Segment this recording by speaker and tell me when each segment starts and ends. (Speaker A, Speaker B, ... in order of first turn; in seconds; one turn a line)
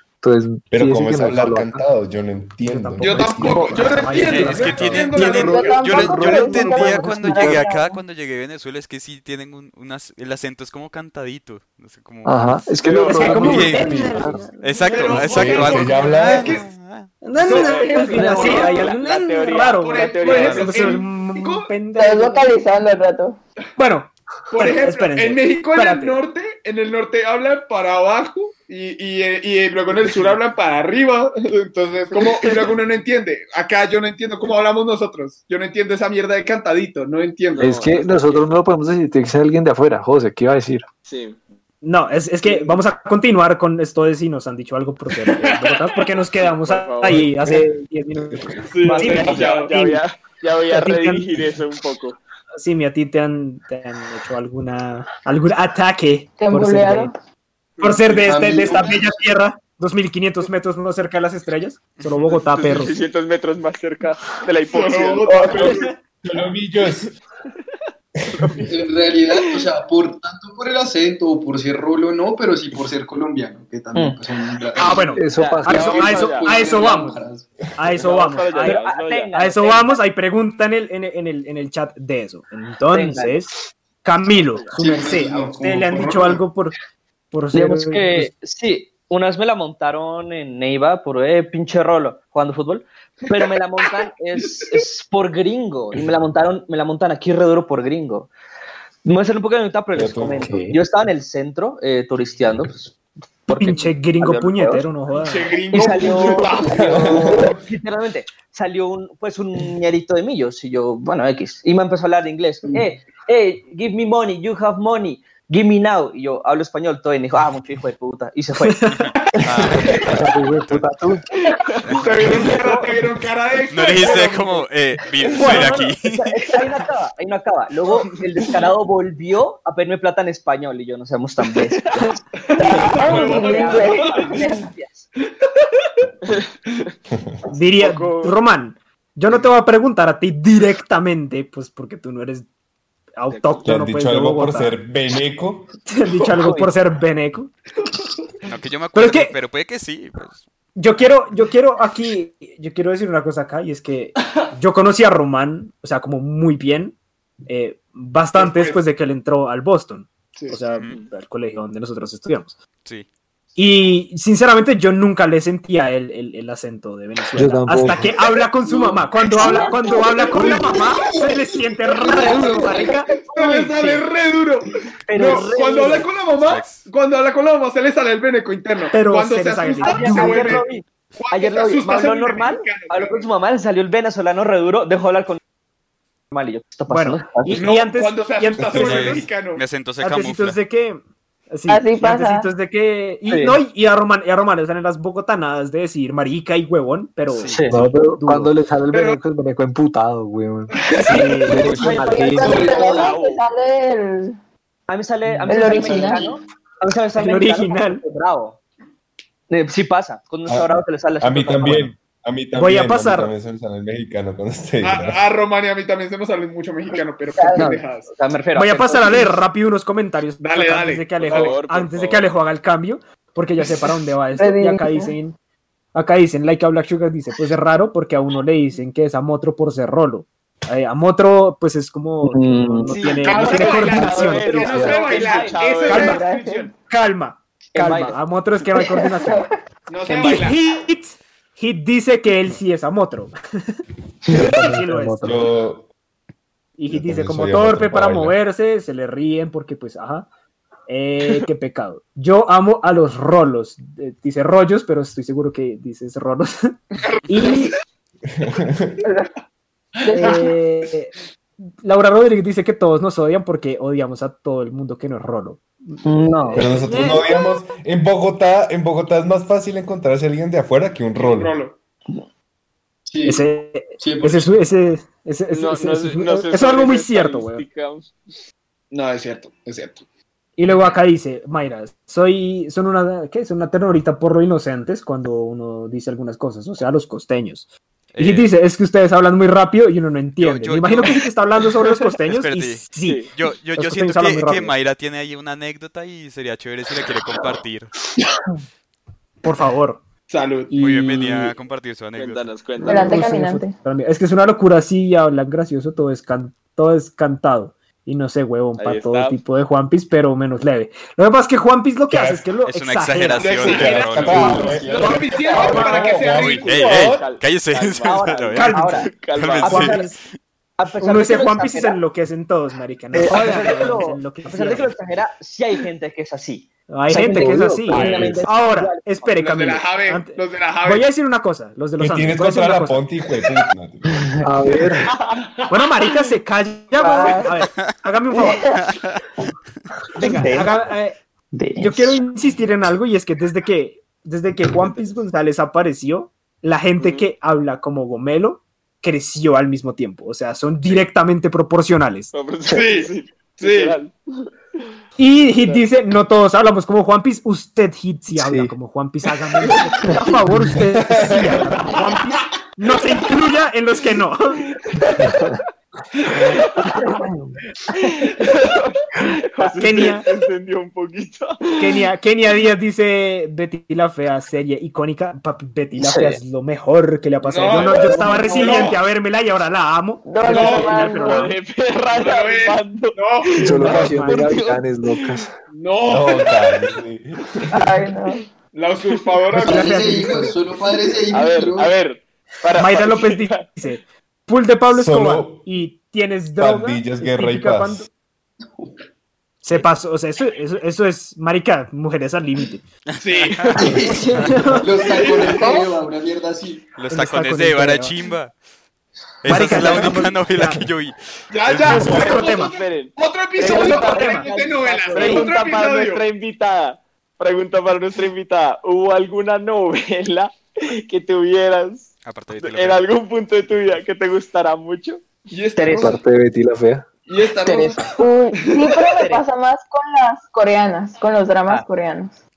Speaker A: 0.2-1.8
Speaker B: 0.7-4.9
Speaker C: 2.6-5.0
Speaker D: 3.0-6.2
Speaker E: 4.1-12.7
Speaker F: 5.1-8.0
Speaker A: 5.9-7.7
Speaker A: 12.2-14.4
Speaker G: 12.8-13.3
Speaker C: 13.1-15.6
Speaker E: 13.2-14.1
Speaker B: 13.3-14.4
Speaker E: 14.6-17.1
Speaker D: 14.9-16.6
Speaker B: 15.3-16.6
Speaker C: 17.2-22.6
Speaker G: 17.4-21.0
Speaker D: 17.5-18.9
Speaker H: 18.1-18.7
Speaker D: 19.8-21.7
Speaker F: 21.9-23.4
Speaker C: 23.8-26.2
Speaker D: 24.5-37.7
Speaker G: 32.1-32.8
Speaker G: 37.5-38.5
Speaker A: 37.6-40.9
Speaker G: 41.0-41.4
Speaker C: 41.8-49.5
Speaker D: 45.3-45.9
Speaker G: 46.4-47.3
Speaker B: 47.1-47.7
Speaker B: 48.3-48.6
Speaker D: 48.7-50.0
Speaker G: 48.7-52.2
Speaker C: 50.7-51.4
Speaker C: 52.6-57.1
Speaker F: 56.4-57.1
Speaker G: 57.8-59.0
Speaker C: 57.8-63.0
Speaker I: 57.9-59.1
Speaker G: 62.5-65.8
Speaker D: 64.7-65.9
Speaker C: 65.5-65.9
Speaker B: 66.2-67.1
Speaker G: 68.4-68.7
Speaker I: 68.6-77.5
Speaker G: 69.3-69.7
Speaker C: 74.8-77.2
Speaker A: 75.1-75.9
Speaker G: 75.3-76.7
Speaker B: 77.7-78.0
Speaker C: 77.8-86.7
Speaker G: 77.9-79.3
Speaker H: 78.6-80.0
Speaker H: 82.9-83.4
Speaker G: 84.3-84.8
Speaker I: 84.8-86.4
Speaker C: 87.3-88.3
Speaker H: 87.5-98.3
Speaker H: 99.0-104.9
Speaker B: 99.9-100.6
Speaker A: 100.4-100.8
Speaker C: 103.5-105.5
Speaker D: 105.1-107.5
Speaker H: 105.7-118.9
Speaker I: 105.8-107.5
Speaker B: 106.7-107.5
Speaker C: 118.7-119.0
Speaker E: 118.8-120.9
Speaker B: 119.6-119.8
Speaker A: 119.9-121.3
Speaker G: 121.4-121.8
Speaker E: 121.8-122.6
Speaker D: 121.9-124.7
Speaker H: 122.4-123.0
Speaker E: 123.7-126.4
Speaker B: 125.3-125.6
Speaker H: 125.3-132.2
Speaker D: 125.5-125.9
Speaker G: 128.1-128.5
Speaker G: 131.6-132.1
Speaker D: 132.5-134.5
Speaker F: 132.6-134.5
Speaker H: 132.8-135.1
Speaker G: 136.2-136.5
Speaker B: 137.1-137.4
Speaker C: 137.5-142.4
Speaker G: 137.8-138.3
Speaker C: 143.2-144.8
Speaker G: 143.3-143.7
Speaker B: 143.6-145.7
Speaker C: 145.9-147.5
Speaker H: 146.4-146.7
Speaker E: 148.4-150.4
Speaker C: 148.9-149.3
Speaker C: 150.8-156.9
Speaker C: 157.5-162.5
Speaker D: 158.3-158.8
Speaker E: 160.7-161.0
Speaker C: 163.6-173.1
Speaker A: 167.3-168.2
Speaker I: 168.7-169.1
Speaker D: 169.2-170.7
Speaker H: 169.4-170.0
Speaker I: 169.7-173.0
Speaker D: 173.1-183.2
Speaker H: 173.3-174.1
Speaker H: 175.1-176.1
Speaker E: 176.4-176.9
Speaker C: 178.9-180.6
Speaker H: 179.8-185.4
Speaker H: 186.3-187.7
Speaker C: 186.9-189.3
Speaker D: 187.5-189.6
Speaker B: 188.6-188.9
Speaker E: 188.7-190.6
Speaker C: 190.0-198.5
Speaker F: 191.7-192.5
Speaker H: 193.3-193.6
Speaker E: 197.3-197.6
Speaker H: 197.5-197.8
Speaker A: 197.7-202.8
Speaker D: 198.9-199.2
Speaker D: 200.7-201.2
Speaker C: 201.0-201.8
Speaker H: 201.5-202.8
Speaker F: 201.6-204.4
Speaker I: 202.3-203.2
Speaker G: 202.6-203.4
Speaker H: 204.9-208.6
Speaker F: 205.5-206.3
Speaker I: 205.8-206.4
Speaker C: 207.2-208.0
Speaker H: 209.5-211.9
Speaker B: 210.5-215.2
Speaker C: 212.5-213.3
Speaker D: 214.8-218.1
Speaker H: 217.3-219.3
Speaker C: 218.5-225.3
Speaker D: 220.4-221.6
Speaker G: 221.2-222.3
Speaker F: 224.4-225.1
Speaker C: 225.9-234.8
Speaker H: 232.2-235.6
Speaker D: 233.2-236.7
Speaker G: 233.3-236.2
Speaker C: 235.9-236.2
Speaker F: 235.9-236.7
Speaker C: 236.9-239.5
Speaker H: 237.7-238.2
Speaker F: 238.7-239.5
Speaker D: 239.9-240.6
Speaker C: 240.1-243.3
Speaker H: 244.2-244.5
Speaker A: 244.3-245.5
Speaker C: 244.3-245.4
Speaker B: 245.2-245.9
Speaker C: 246.8-250.3
Speaker B: 246.9-248.4
Speaker C: 250.9-256.7
Speaker D: 257.0-257.8
Speaker C: 257.3-257.8
Speaker B: 258.2-259.0
Speaker D: 260.0-260.5
Speaker F: 260.1-260.4
Speaker C: 260.1-261.1
Speaker C: 261.8-267.3
Speaker H: 266.0-266.7
Speaker B: 266.5-271.6
Speaker D: 271.1-271.8
Speaker I: 273.1-274.5
Speaker C: 273.2-277.6
Speaker G: 275.5-278.2
Speaker D: 278.9-280.0
Speaker C: 280.6-287.6
Speaker E: 280.7-280.9
Speaker E: 288.1-288.5
Speaker C: 288.2-293.2
Speaker E: 290.4-291.3
Speaker E: 292.3-297.9
Speaker G: 293.0-293.3
Speaker C: 293.8-294.7
Speaker C: 299.4-300.0
Speaker D: 300.3-300.7
Speaker C: 300.7-301.5
Speaker E: 300.8-302.6
Speaker G: 302.1-303.2
Speaker F: 302.8-303.7
Speaker C: 302.8-313.8
Speaker G: 308.8-309.4
Speaker B: 312.1-312.5
Speaker E: 312.6-314.7
Speaker D: 313.4-317.2
Speaker B: 313.6-315.0
Speaker I: 314.3-315.5
Speaker C: 314.4-316.0
Speaker G: 315.5-319.9
Speaker B: 315.5-316.9
Speaker E: 316.4-320.2
Speaker H: 318.1-319.1
Speaker C: 318.5-319.0
Speaker H: 319.6-320.0
Speaker C: 319.6-320.2
Speaker H: 320.8-322.0
Speaker C: 321.0-324.9
Speaker H: 323.1-329.4
Speaker C: 326.9-333.0
Speaker A: 327.1-328.4
Speaker D: 329.3-331.1
Speaker B: 332.0-334.3
Speaker H: 334.0-334.5
Speaker A: 334.4-335.1
Speaker G: 335.1-335.4
Speaker C: 335.7-338.7
Speaker F: 336.9-337.5
Speaker F: 338.3-338.8
Speaker E: 338.7-339.2
Speaker C: 340.1-341.2
Speaker H: 340.2-340.8
Speaker H: 341.5-342.2
Speaker C: 341.8-352.3
Speaker G: 344.9-345.2
Speaker G: 347.0-347.2
Speaker G: 352.3-354.1
Speaker D: 352.7-354.0
Speaker C: 355.2-364.6
Speaker A: 358.4-358.7
Speaker B: 360.7-361.6
Speaker G: 366.5-366.8
Speaker G: 368.0-372.0
Speaker C: 369.8-370.2
Speaker C: 371.8-381.5
Speaker H: 375.9-376.4
Speaker D: 377.4-379.0
Speaker F: 377.7-378.9
Speaker F: 380.2-381.5
Speaker D: 380.4-381.0
Speaker G: 380.6-385.4
Speaker D: 382.1-383.9
Speaker A: 383.6-385.5
Speaker C: 383.6-384.5
Speaker D: 385.7-386.5
Speaker B: 386.1-387.9
Speaker F: 387.7-388.4
Speaker D: 388.7-390.1
Speaker I: 389.5-392.0
Speaker C: 389.6-390.6
Speaker G: 391.3-393.6
Speaker C: 392.8-398.1
Speaker B: 394.9-395.6
Speaker B: 396.6-398.1
Speaker C: 399.6-402.8
Speaker E: 403.1-404.5
Speaker D: 403.2-403.8
Speaker I: 403.7-406.9
Speaker C: 404.4-404.9
Speaker D: 405.0-405.9
Speaker E: 407.0-408.5
Speaker C: 407.1-408.1
Speaker E: 409.4-412.4
Speaker C: 409.5-410.8
Speaker B: 409.6-410.3
Speaker D: 411.5-416.2
Speaker C: 411.9-412.7
Speaker G: 412.0-425.3
Speaker H: 413.6-415.5
Speaker C: 413.7-414.4
Speaker C: 415.2-415.4
Speaker E: 422.2-423.0
Speaker D: 425.5-426.2
Speaker H: 425.8-426.1
Speaker A: 426.0-427.0
Speaker D: 427.2-429.0
Speaker H: 427.6-428.0
Speaker F: 428.2-432.4
Speaker H: 429.0-429.4